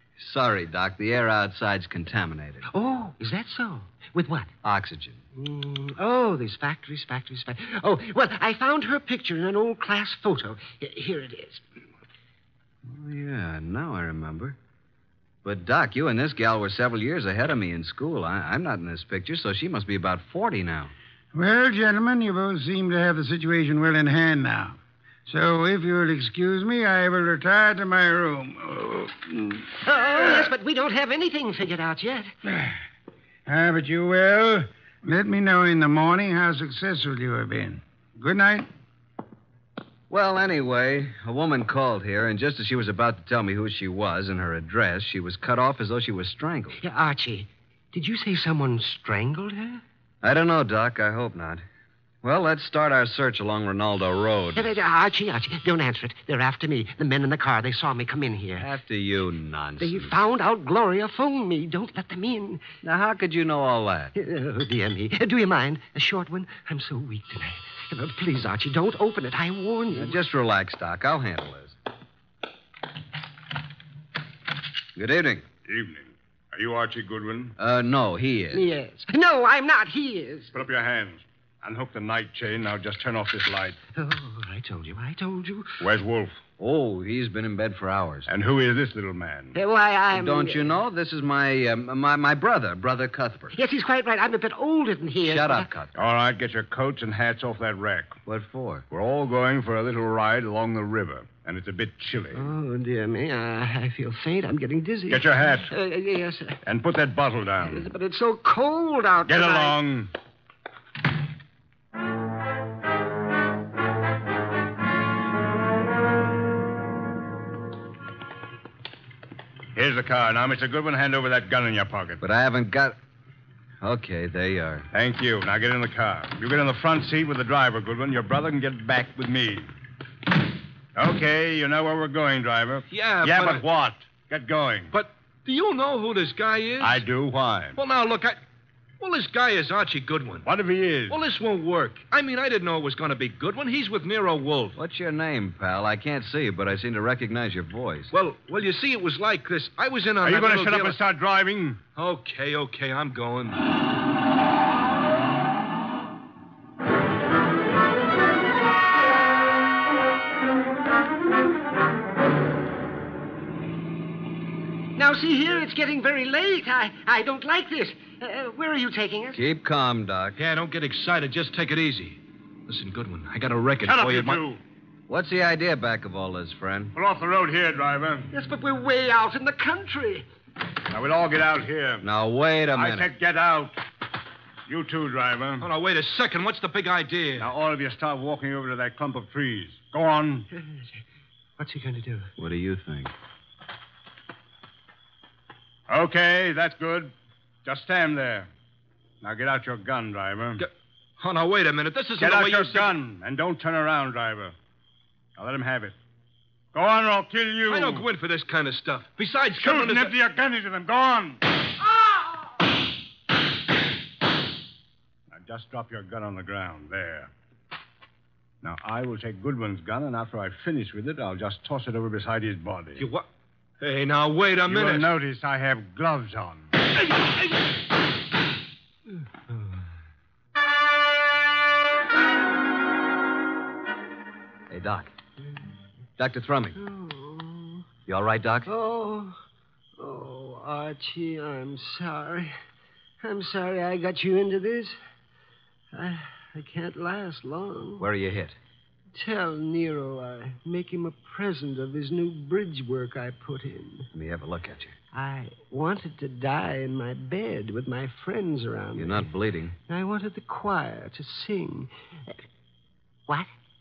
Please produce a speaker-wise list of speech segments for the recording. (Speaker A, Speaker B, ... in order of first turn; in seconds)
Speaker A: 0.2-2.7, 4.6-5.2, 12.8-14.6, 15.4-20.9, 40.1-46.8, 50.2-51.6, 52.2-54.7, 58.6-60.1, 62.8-64.1, 69.9-71.8, 75.0-75.5, 77.6-78.6, 86.6-88.3, 90.1-93.6, 95.2-95.9, 98.3-98.8, 122.2-123.0, 123.8-124.9, 144.8-148.1, 169.3-170.4, 175.1-176.9, 182.0-183.1, 192.4-193.1, 234.7-235.1, 236.2-236.8, 238.1-238.7, 248.0-248.6, 254.1-254.9, 258.9-259.8
Speaker B: 2.7-4.5, 5.4-11.6, 29.8-32.3, 46.8-49.8, 54.5-58.7, 59.8-62.6, 64.2-70.2, 78.5-80.6, 84.0-85.8, 89.5-90.8, 93.5-95.7, 102.3-106.6, 107.6-109.8, 164.9-169.4, 178.3-180.3, 190.5-191.0, 191.6-192.3, 236.8-237.8, 238.7-239.4, 240.0-242.6, 243.2-245.0, 245.9-248.1, 249.1-254.1, 255.1-259.3, 259.9-262.4
Speaker C: 21.3-30.5, 32.5-32.8, 33.5-38.7
Speaker D: 75.7-77.5, 80.5-83.8, 85.8-86.4, 88.3-89.6, 96.0-98.2, 98.9-102.5, 105.1-105.7, 106.7-107.9, 109.3-110.1, 119.8-122.2, 124.9-129.7, 130.9-134.9, 136.8-137.8, 140.4-141.2, 150.2-151.8, 173.8-174.6, 176.9-178.3, 180.9-182.1, 182.7-183.8, 184.7-185.7, 187.4-190.5, 195.9-197.1, 197.7-198.5, 199.2-200.6, 202.2-204.5, 205.4-206.0, 206.7-208.1, 209.6-211.4, 215.3-217.3, 218.6-223.1, 224.7-226.8
Speaker E: 132.9-133.7, 134.9-137.0, 137.8-138.4, 139.0-140.5, 141.1-144.8, 148.1-151.0, 152.0-153.6, 170.4-174.4, 185.6-187.5, 200.6-202.9, 207.7-210.2, 223.0-223.3, 223.8-225.1